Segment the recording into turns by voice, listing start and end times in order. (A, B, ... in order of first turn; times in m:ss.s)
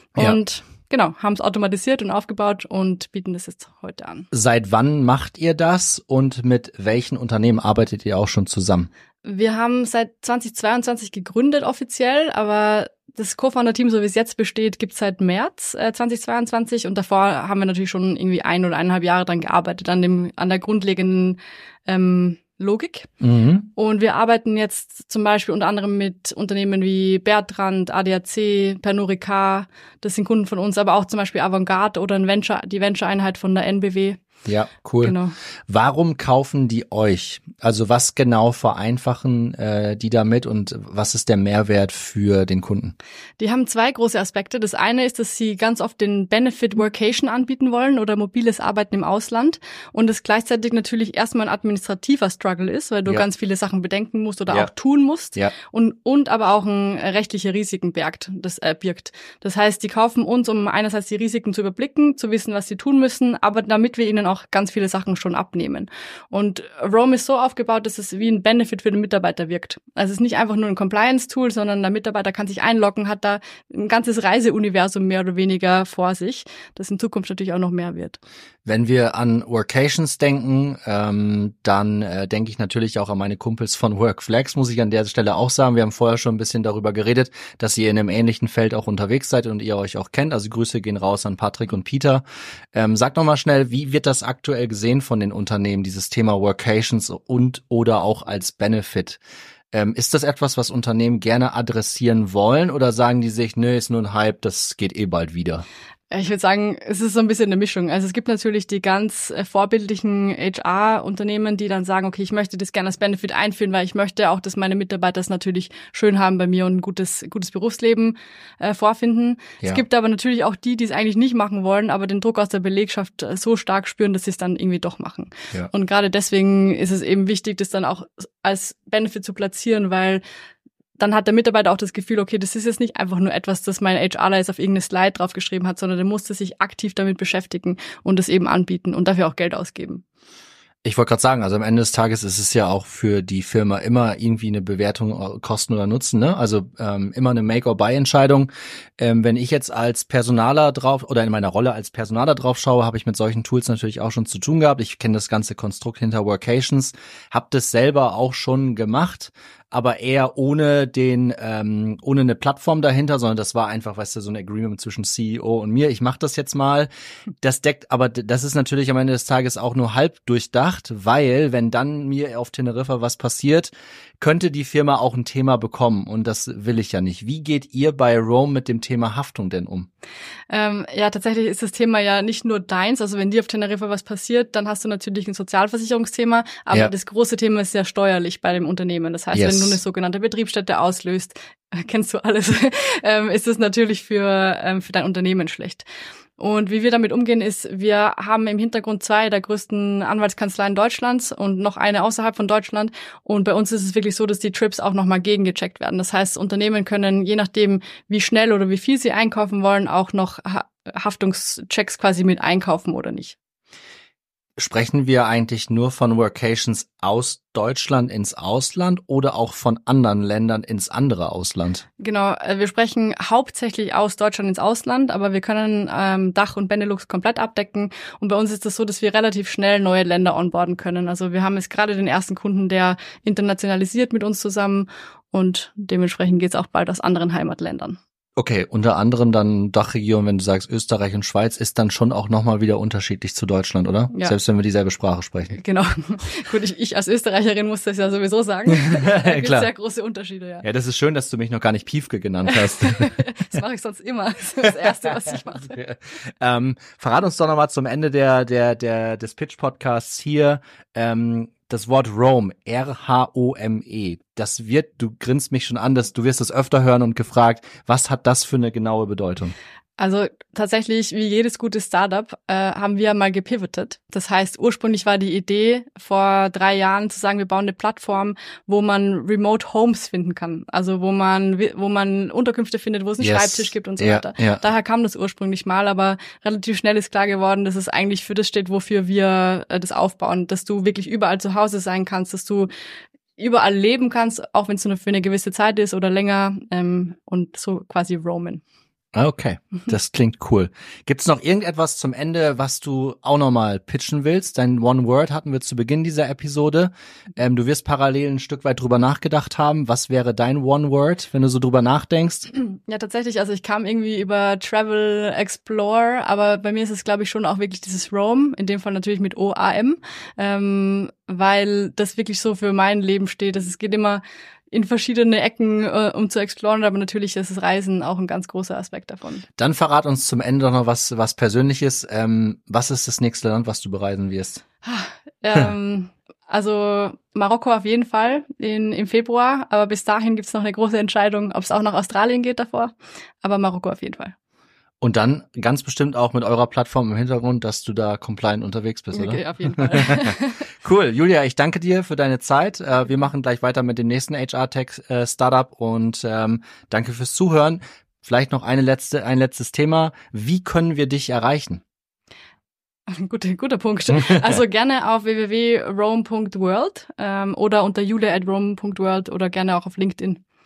0:00.1-0:04.2 A
0:04.3-0:08.9 B
0:09.2-0:23.1 A
0:23.2-0:23.7 B
0:23.8-0:34.2 A
0:34.4-0:35.1 B
0:35.0-0:35.3 A
0:35.7-0:43.0 B
0:43.4-1:18.2 A
1:18.6-1:39.2 B
1:39.7-1:45.6 B
1:46.1-2:10.2 A
2:11.0-2:20.0 A
2:20.8-2:46.9 B
2:47.4-2:59.9 B
3:00.5-3:15.8 A
3:09.3-3:09.8 B
3:16.4-3:33.4 A
3:34.6-3:41.8 B
3:42.0-3:58.0 A
3:58.4-4:05.6 B
4:05.5-4:10.6 A
4:08.7-4:09.7 B
4:10.6-4:13.2 B
4:12.5-4:15.8 A
4:15.7-4:29.5 B
4:30.0-4:52.7 A
4:43.2-4:44.6 B
4:53.4-4:58.6 A
4:59.1-5:12.5 B
5:12.5-5:29.4 A
5:29.6-5:34.6 B
5:34.8-5:44.3 A
5:45.0-6:01.8 B
5:49.1-5:50.6 A
6:03.1-6:10.4 A
6:04.1-6:04.6 B